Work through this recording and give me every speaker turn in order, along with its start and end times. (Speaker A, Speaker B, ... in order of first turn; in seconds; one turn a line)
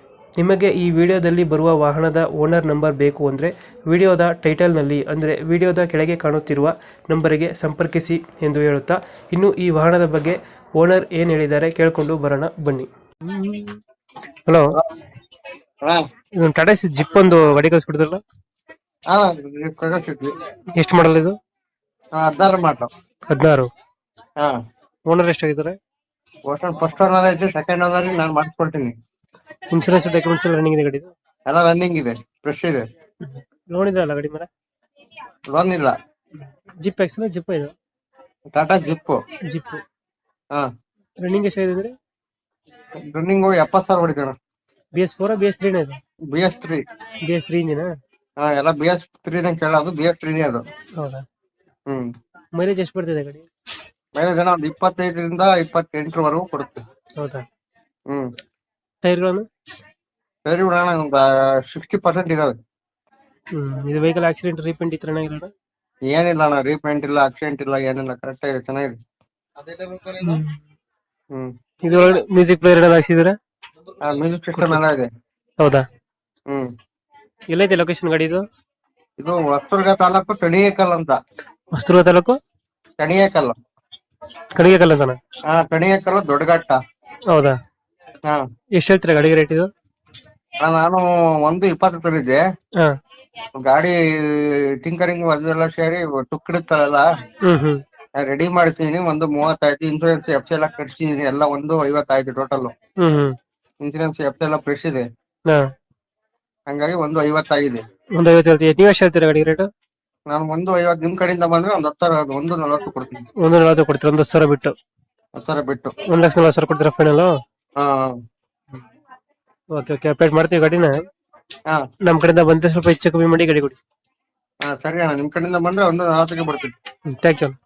Speaker A: 0.4-13.8
Speaker A: 14.5-14.7
Speaker A: 16.4-18.2
Speaker B: 19.1-20.4
Speaker A: 20.8-21.4
Speaker B: 22.2-22.9
Speaker A: 23.3-23.7
Speaker A: 25.1-25.8
Speaker B: 26.5-28.9
Speaker A: 29.7-31.1
Speaker B: 31.5-32.8
Speaker A: 33.3-34.5
Speaker B: 35.5-35.9
Speaker A: 36.8-37.7
Speaker B: 38.5-39.2
Speaker A: 39.5-39.8
Speaker A: 41.2-41.9
Speaker B: 43.1-44.3
Speaker A: 45.0-46.0
Speaker B: 46.3-46.8
Speaker A: 47.2-47.9
Speaker B: 48.4-50.6
Speaker A: 51.0-51.2
Speaker A: 52.6-53.4
Speaker B: 54.1-56.8
Speaker A: 57.2-57.4
Speaker A: 59.0-59.5
Speaker B: 60.5-62.5
Speaker A: 63.5-65.5
Speaker B: 66.1-69.0
Speaker A: 70.1-70.6
Speaker A: 71.8-73.3
Speaker B: 74.0-75.1
Speaker A: 74.5-74.8
Speaker A: 75.6-75.8
Speaker A: 77.5-78.4
Speaker B: 79.2-81.2
Speaker A: 81.7-82.4
Speaker B: 83.0-83.5
Speaker A: 84.5-85.2
Speaker B: 85.5-86.8
Speaker A: 87.3-87.6
Speaker A: 88.8-89.7
Speaker B: 90.6-92.4
Speaker B: 93.5-97.1
Speaker A: 97.4-97.8
Speaker B: 98.2-102.7
Speaker A: 103.0-103.3
Speaker B: 103.8-105.0
Speaker B: 106.7-107.8
Speaker A: 108.2-109.7
Speaker B: 110.3-113.2
Speaker A: 113.4-114.7
Speaker B: 115.4-115.9
Speaker A: 116.1-117.3
Speaker B: 117.8-118.2
Speaker A: 119.7-121.0
Speaker A: 122.0-123.8
Speaker B: 124.7-126.7
Speaker A: 127.1-127.5